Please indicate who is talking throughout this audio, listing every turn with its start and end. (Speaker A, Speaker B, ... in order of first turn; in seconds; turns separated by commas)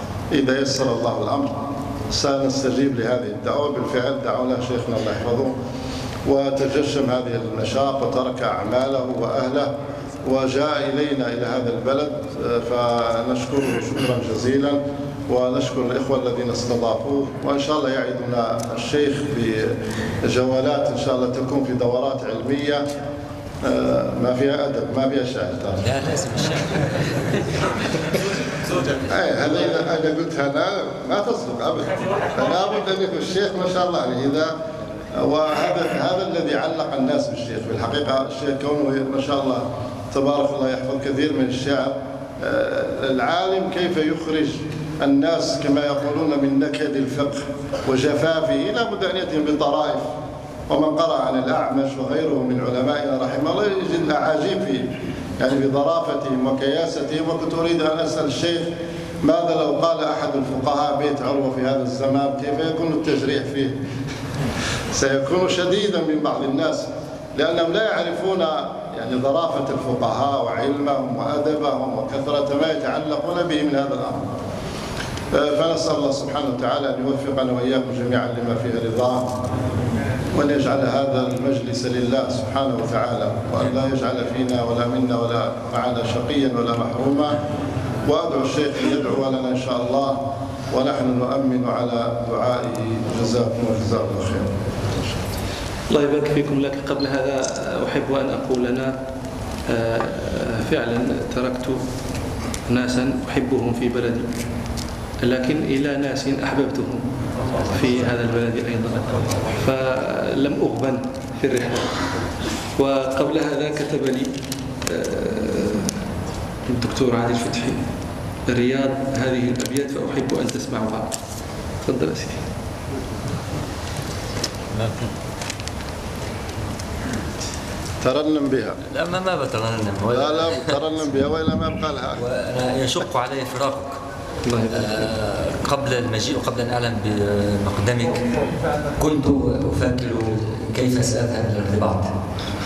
Speaker A: 0.3-5.5, Speaker A: 6.2-9.7, Speaker A: 10.2-22.9, Speaker A: 23.6-25.9, Speaker B: 25.9-27.4, Speaker A: 29.1-34.5, Speaker A: 35.1-50.1, Speaker A: 50.7-58.7, Speaker A: 59.2-63.8, Speaker A: 64.9-74.3, Speaker A: 75.3-79.3, Speaker A: 80.3-87.4, Speaker A: 88.0-90.2, Speaker A: 90.7-95.2, Speaker C: 95.9-99.0, Speaker C: 99.7-101.8, Speaker C: 102.7-104.3, Speaker C: 105.2-107.0, Speaker C: 107.7-111.9, Speaker C: 112.8-114.3, Speaker C: 114.9-116.0, Speaker C: 116.7-117.9, Speaker C: 118.5-121.1, Speaker C: 121.8-122.5, Speaker A: 128.0-128.8, Speaker B: 128.9-130.8, Speaker A: 130.1-132.2, Speaker B: 132.2-134.0, Speaker C: 134.4-135.1, Speaker B: 134.7-138.3, Speaker B: 139.0-142.1